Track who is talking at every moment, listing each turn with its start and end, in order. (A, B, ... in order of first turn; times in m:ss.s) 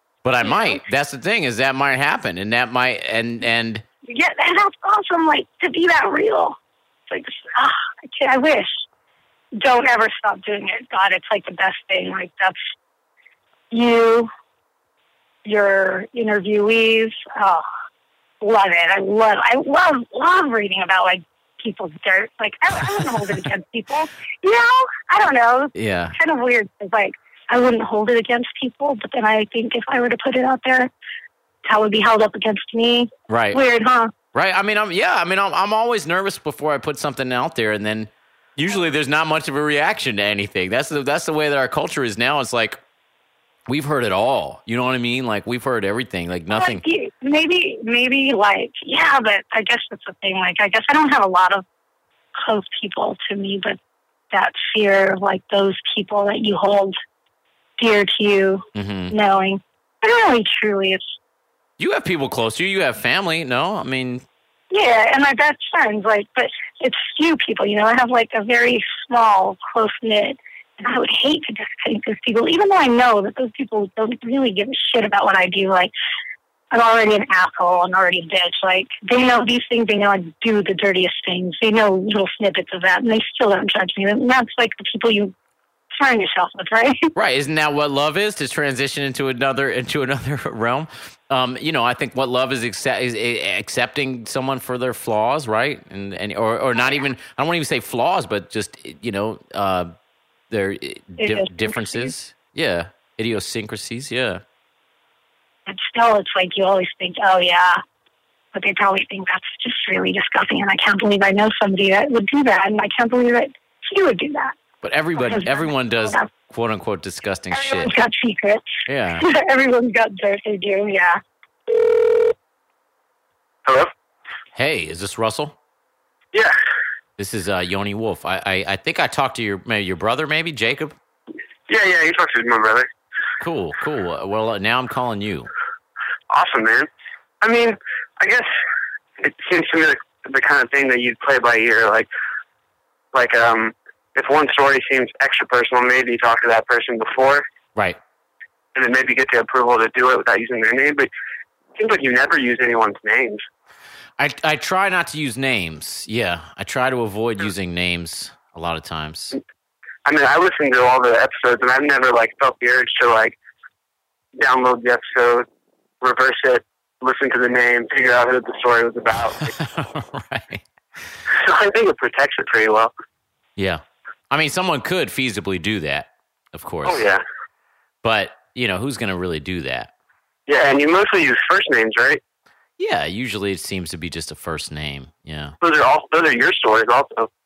0:00.2-0:03.8 A
0:00.4-0:00.8 B
0:04.0-0:06.6 B
0:07.1-0:08.8 B
0:09.6-0:12.6 B
0:13.7-0:14.3 B
0:15.4-0:17.6 B
0:18.4-0:30.9 B
0:25.7-0:26.1 A
0:31.6-0:34.1 B
0:33.3-0:33.6 A
0:34.3-0:42.8 A
0:43.7-0:46.8 A
0:46.5-0:51.6 B
0:52.4-0:53.8 B
0:54.3-0:57.0 B
0:57.8-1:01.0 B
0:58.7-0:59.1 A
1:01.8-1:04.2 A
1:04.7-1:15.9 B
1:16.7-1:25.3 B
1:26.0-1:27.1 B
1:27.1-1:39.9 A
1:40.5-1:44.4 A
1:41.2-1:42.1 B
1:45.7-1:47.8 B
1:48.5-1:54.6 B
1:54.8-1:57.9 A
1:55.2-1:56.3 B
1:57.5-1:58.6 B
1:58.9-1:59.2 A
1:59.2-2:01.2 B
2:03.6-2:03.9 C
2:04.5-2:05.5 A
2:07.2-2:10.9 A
2:11.7-2:12.9 C
2:13.4-2:15.5 A
2:16.3-2:16.9 C
2:17.4-2:18.5 C
2:19.2-2:22.1 C
2:23.1-2:27.4 C
2:28.7-2:31.1 C
2:31.8-2:33.4 C
2:34.2-2:39.4 A
2:40.0-2:43.4 C
2:44.4-2:45.4 C
2:46.0-2:49.5 C
2:49.4-2:50.6 A
2:51.3-2:52.9 C
2:53.6-2:57.0 A
2:56.8-2:57.2 C
2:58.0-2:59.9 A
3:00.5-3:02.2 C
3:02.8-3:05.6 A
3:05.6-3:07.3 C